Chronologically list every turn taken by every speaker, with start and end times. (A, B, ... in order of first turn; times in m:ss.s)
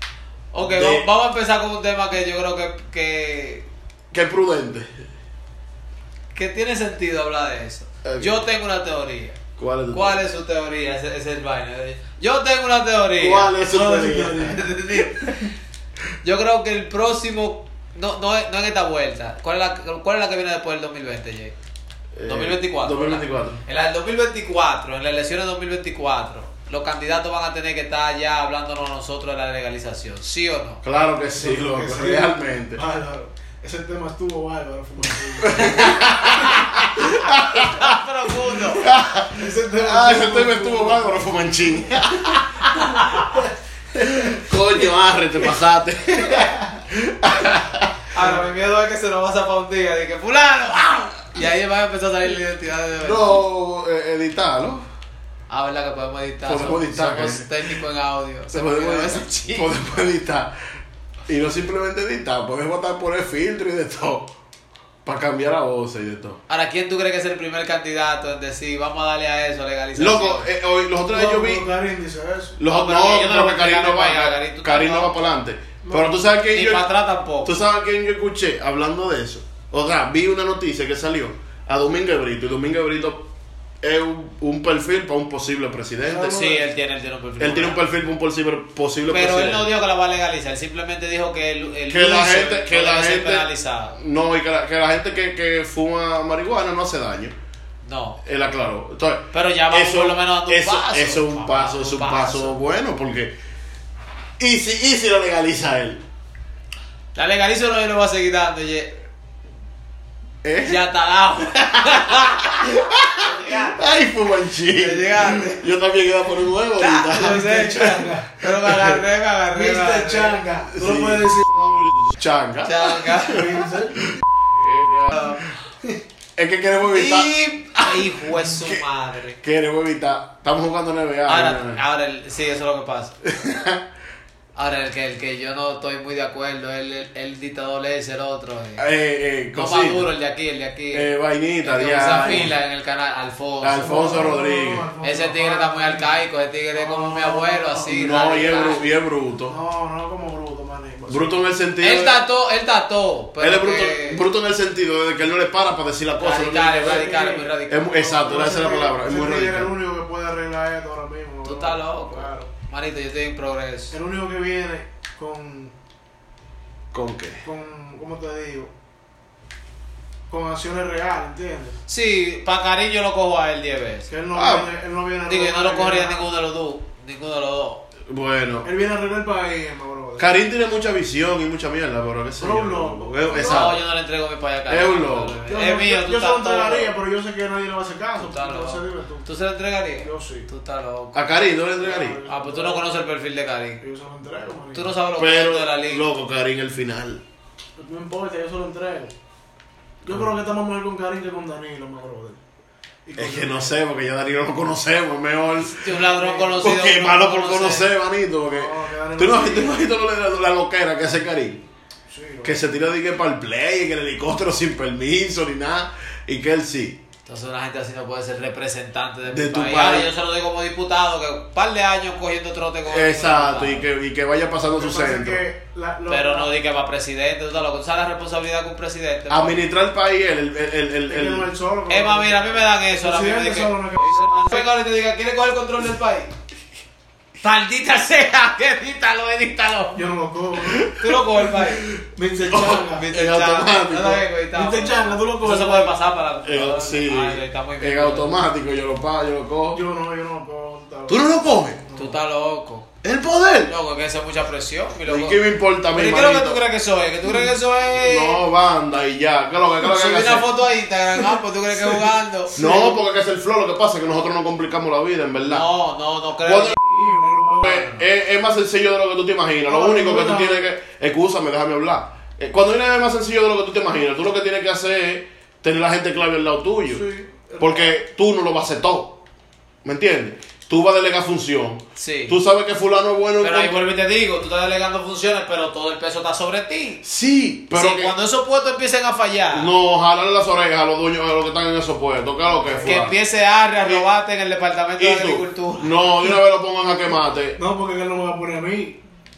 0:00.5-0:03.7 A
0:00.6-0:01.1 B
0:04.1-0:04.9 B
0:06.3-0:09.4 A
0:08.0-0:08.4 B
0:09.6-0:10.2 B
0:09.9-0:13.5 A
0:13.1-0:14.6 B
0:13.6-0:14.7 C
0:14.4-0:15.5 A
0:16.2-0:21.5 A
0:22.1-0:23.6 B
0:22.2-0:30.8 A
0:30.8-0:32.8 B
0:31.3-0:35.9 C
0:35.4-0:37.8 B
0:35.8-0:36.1 A
0:37.2-0:38.9 A
0:38.8-0:43.2 B
0:39.4-0:41.8 C
0:43.1-0:43.5 C
0:43.9-0:48.0 B
0:48.1-0:53.4 A
0:53.0-0:54.8 B
0:55.5-0:59.7 A
0:56.4-0:57.5 B
0:58.5-1:00.5 B
1:01.3-1:04.3 B
1:05.0-1:06.4 B
1:06.5-1:10.5 A
1:09.9-1:11.6 B
1:11.1-1:12.6 C
1:12.6-1:16.8 B
1:12.7-1:15.2 A
1:15.8-1:16.2 C
1:16.5-1:17.6 A
1:17.4-1:23.3 B
1:23.8-1:26.3 B
1:26.0-1:26.7 C
1:26.2-1:27.8 A
1:27.4-1:29.7 B
1:29.1-1:34.0 A
1:31.9-1:37.3 B
1:37.8-1:38.2 A
1:38.2-1:43.3 B
1:39.3-1:42.6 A
1:44.4-1:46.0 B
1:47.1-1:48.9 A
1:50.4-1:50.8 B
1:50.6-1:53.9 A
1:51.9-1:57.5 B
1:54.7-1:55.6 A
1:56.8-2:00.4 A
1:57.1-1:58.4 C
1:58.6-1:58.9 B
1:59.5-2:01.7 C
2:00.7-2:03.6 B
2:02.6-2:03.6 A
2:03.2-2:04.1 C
2:04.1-2:05.4 B
2:05.1-2:05.4 A
2:06.4-2:08.8 B
2:06.9-2:09.4 A
2:09.4-2:11.8 B
2:11.3-2:13.1 A
2:13.2-2:13.8 B
2:14.5-2:18.8 A
2:18.8-2:20.1 B
2:19.5-2:21.1 A
2:20.9-2:22.5 B
2:21.6-2:24.3 A
2:23.6-2:24.9 B
2:23.8-2:26.2 C
2:25.0-2:28.8 A
2:26.7-2:28.8 C
2:27.9-2:29.5 B
2:29.5-2:31.4 C
2:31.1-2:32.2 B
2:31.8-2:34.2 A
2:33.4-2:37.1 B
2:36.2-2:38.4 A
2:36.8-2:42.5 C
2:37.7-2:39.7 B
2:41.4-2:43.9 A
2:43.9-2:45.7 C
2:46.9-2:47.4 B
2:47.4-2:48.7 C
2:50.3-2:51.8 C
2:51.9-2:54.1 A
2:54.1-2:56.2 C
2:54.3-2:54.7 B
2:55.2-2:57.8 A
2:58.1-2:58.7 B
2:58.6-3:00.3 C
3:00.2-3:03.8 B
3:02.4-3:03.7 C
3:03.4-3:06.9 A
3:04.7-3:05.4 B
3:05.4-3:09.3 C
3:08.2-3:11.2 A
3:10.0-3:10.5 C
3:11.1-3:12.2 B
3:11.8-3:12.9 C
3:12.2-3:13.8 A
3:13.8-3:14.9 C
3:14.7-3:16.0 A
3:15.1-3:17.2 B
3:17.8-3:19.1 C
3:20.0-3:20.3 B
3:20.0-3:22.4 C
3:23.0-3:23.7 C
3:23.2-3:26.0 B
3:25.6-3:27.9 A
3:26.0-3:26.6 C
3:26.6-3:31.7 B
3:28.5-3:29.8 C
3:32.1-3:32.6 C
3:32.4-3:37.0 B
3:37.2-3:43.9 A
3:39.3-3:40.1 B
3:42.8-3:45.4 B
3:44.6-3:46.5 C
3:46.1-3:49.6 A
3:49.3-3:51.5 B
3:51.1-3:54.7 C
3:51.9-3:56.3 A
3:57.4-4:00.0 A
3:59.9-4:00.9 C
4:00.6-4:01.7 B
4:00.9-4:01.8 A
4:02.0-4:03.1 C
4:02.5-4:04.2 B
4:02.9-4:08.4 A
4:04.5-4:06.0 C
4:06.4-4:09.8 B
4:09.7-4:12.2 C
4:11.1-4:11.8 B
4:12.0-4:12.9 A
4:13.0-4:13.7 B
4:13.6-4:15.4 A
4:15.0-4:16.6 B
4:15.9-4:18.4 A
4:17.9-4:20.5 B
4:19.8-4:22.5 A
4:22.5-4:23.0 C
4:22.6-4:25.6 B
4:25.5-4:26.8 A
4:26.4-4:26.8 B
4:26.8-4:27.9 C
4:27.6-4:37.0 B
4:29.7-4:30.7 C
4:36.9-4:38.0 C
4:37.6-4:39.2 B
4:39.8-4:43.8 B
4:42.0-4:42.4 A
4:43.4-4:47.0 A
4:47.0-4:48.1 B
4:47.7-4:49.7 A
4:49.5-4:53.2 B
4:52.6-4:53.0 C
4:52.8-4:56.3 A
4:53.8-4:54.0 B
4:55.0-4:57.6 B
4:57.6-4:59.0 C